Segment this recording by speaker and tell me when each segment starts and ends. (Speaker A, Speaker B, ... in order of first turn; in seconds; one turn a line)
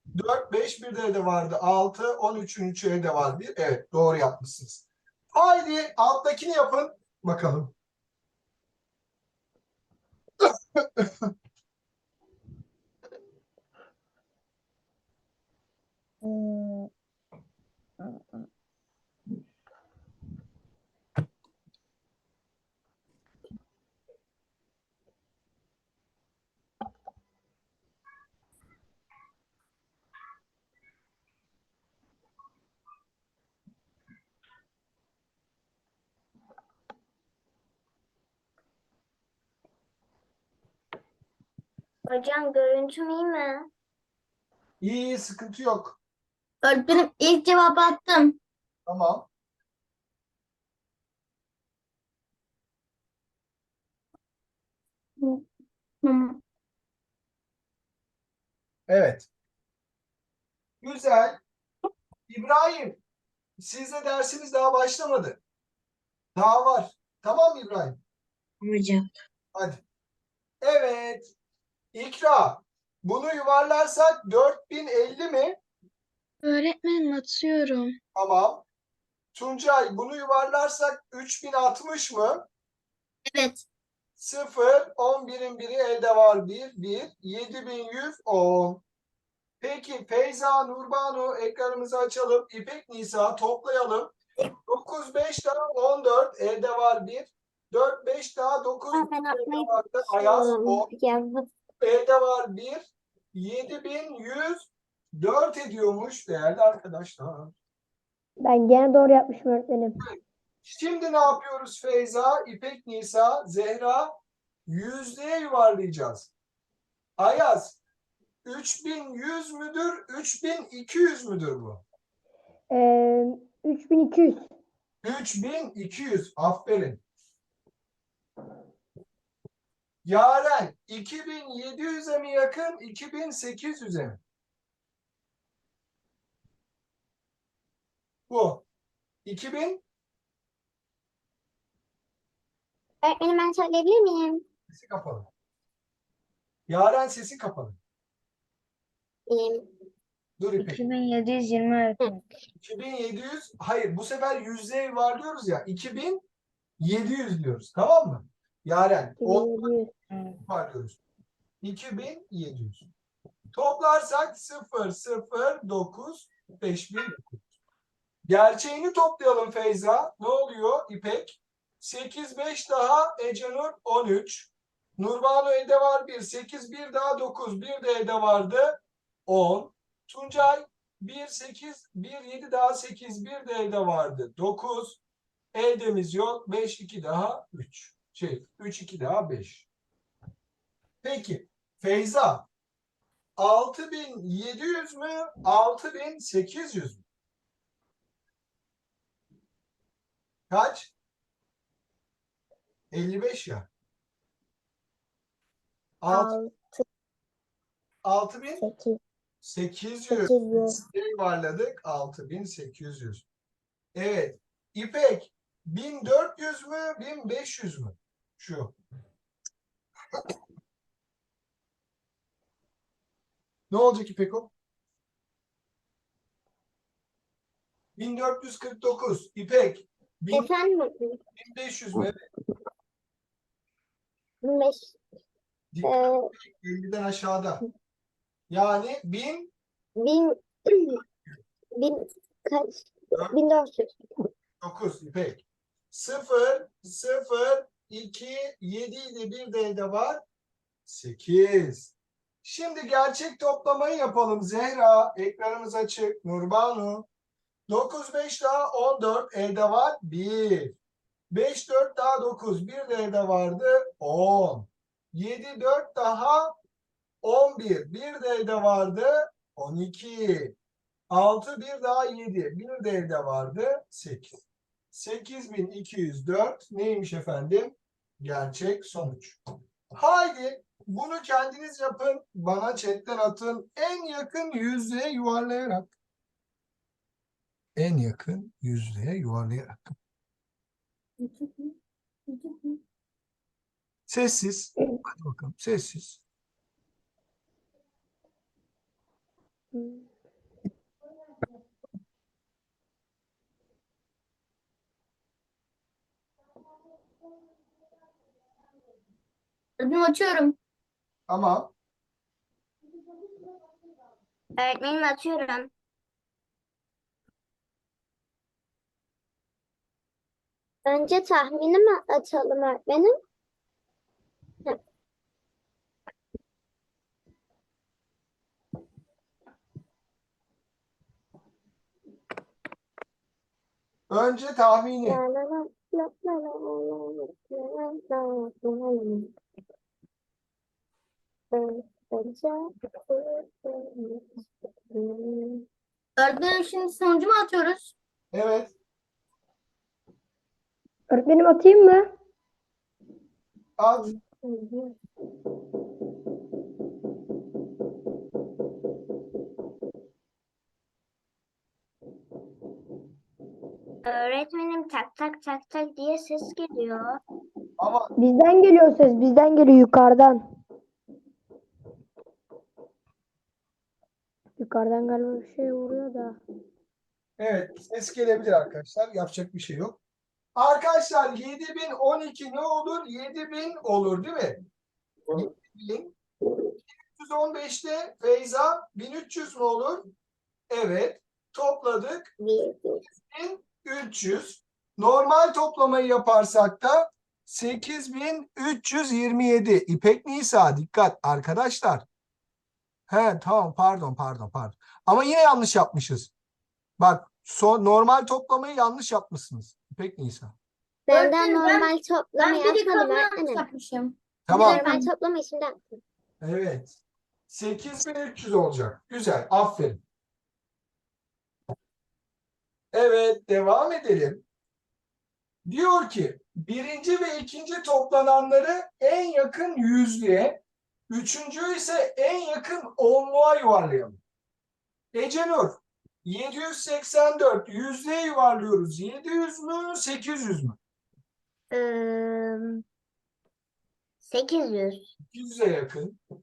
Speaker A: 0.1-7.7
Speaker A: 10.4-11.3
Speaker B: 16.2-16.8
Speaker C: 42.0-43.7
Speaker A: 44.8-46.0
Speaker D: 46.6-48.4
Speaker A: 48.9-49.3
Speaker D: 55.2-55.4
Speaker D: 56.0-56.4
Speaker A: 58.9-59.3
Speaker A: 60.8-61.4
Speaker A: 62.3-63.0
Speaker A: 63.6-65.4
Speaker A: 66.3-68.0
Speaker E: 68.6-69.1
Speaker A: 69.5-69.8
Speaker A: 70.6-71.3
Speaker A: 71.9-75.6
Speaker E: 76.4-78.0
Speaker A: 78.1-78.6
Speaker A: 79.3-82.5
Speaker D: 83.3-83.6
Speaker A: 84.2-88.8
Speaker A: 89.6-94.1
Speaker A: 94.7-100.9
Speaker C: 98.9-101.5
Speaker A: 101.8-107.5
Speaker F: 108.4-110.0
Speaker A: 110.0-114.1
Speaker A: 114.7-116.3
Speaker A: 117.2-117.8
Speaker A: 118.5-121.8
Speaker F: 122.7-124.5
Speaker A: 125.0-127.0
Speaker A: 130.0-134.2
Speaker A: 138.3-138.6
Speaker A: 139.2-139.8
Speaker C: 143.0-144.4
Speaker A: 144.7-145.3
Speaker A: 146.7-147.8
Speaker C: 149.3-149.6
Speaker A: 150.4-150.8
Speaker B: 150.6-152.2
Speaker A: 152.6-156.2
Speaker A: 156.8-159.8
Speaker F: 159.2-159.9
Speaker A: 160.4-161.0
Speaker A: 161.6-162.9
Speaker A: 163.5-167.4
Speaker A: 168.3-185.0
Speaker A: 185.5-189.7
Speaker A: 191.0-192.5
Speaker A: 193.4-197.0
Speaker A: 200.5-200.9
Speaker A: 202.9-203.7
Speaker A: 206.0-206.4
Speaker C: 206.1-206.8
Speaker A: 208.0-208.6
Speaker C: 208.6-209.0
Speaker A: 209.4-213.2
Speaker C: 210.1-210.8
Speaker A: 213.9-218.8
Speaker A: 223.7-224.5
Speaker A: 228.0-230.5
Speaker C: 230.3-231.2
Speaker A: 231.4-232.2
Speaker C: 234.4-235.0
Speaker A: 235.7-237.6
Speaker C: 235.8-236.3
Speaker A: 238.5-239.5
Speaker C: 240.0-241.0
Speaker C: 241.8-244.0
Speaker A: 244.6-250.2
Speaker A: 250.9-251.9
Speaker A: 252.4-257.1
Speaker A: 257.7-260.8
Speaker A: 261.3-266.6
Speaker A: 267.2-270.5
Speaker A: 271.1-274.4
Speaker A: 274.9-279.4
Speaker A: 279.9-285.9
Speaker A: 287.8-289.8
Speaker D: 291.2-291.8
Speaker D: 292.3-292.8
Speaker A: 294.1-296.2
Speaker F: 299.7-300.1
Speaker D: 309.8-310.6
Speaker A: 311.3-311.7
Speaker C: 314.6-315.7
Speaker C: 320.9-323.1
Speaker A: 334.1-335.2
Speaker C: 335.0-339.3
Speaker C: 341.5-345.6
Speaker D: 346.2-347.9
Speaker A: 348.3-348.7
Speaker F: 351.1-352.1
Speaker A: 353.8-354.1
Speaker C: 354.1-354.9
Speaker C: 364.1-367.2
Speaker A: 367.8-368.1
Speaker F: 368.2-370.4
Speaker F: 374.6-376.4
Speaker A: 377.4-380.0
Speaker A: 380.6-384.6
Speaker A: 385.3-386.1
Speaker A: 386.9-390.1
Speaker A: 390.7-392.3
Speaker C: 392.4-393.1
Speaker A: 393.2-402.1
Speaker A: 403.1-406.3
Speaker A: 407.0-410.6
Speaker C: 411.1-413.6
Speaker D: 411.1-415.1
Speaker A: 414.5-414.9
Speaker C: 414.5-416.0
Speaker A: 416.4-416.9
Speaker A: 417.5-420.0
Speaker A: 422.9-424.4
Speaker A: 425.6-434.2
Speaker A: 435.1-440.8
Speaker C: 441.7-442.8
Speaker C: 444.2-445.1
Speaker A: 445.3-446.2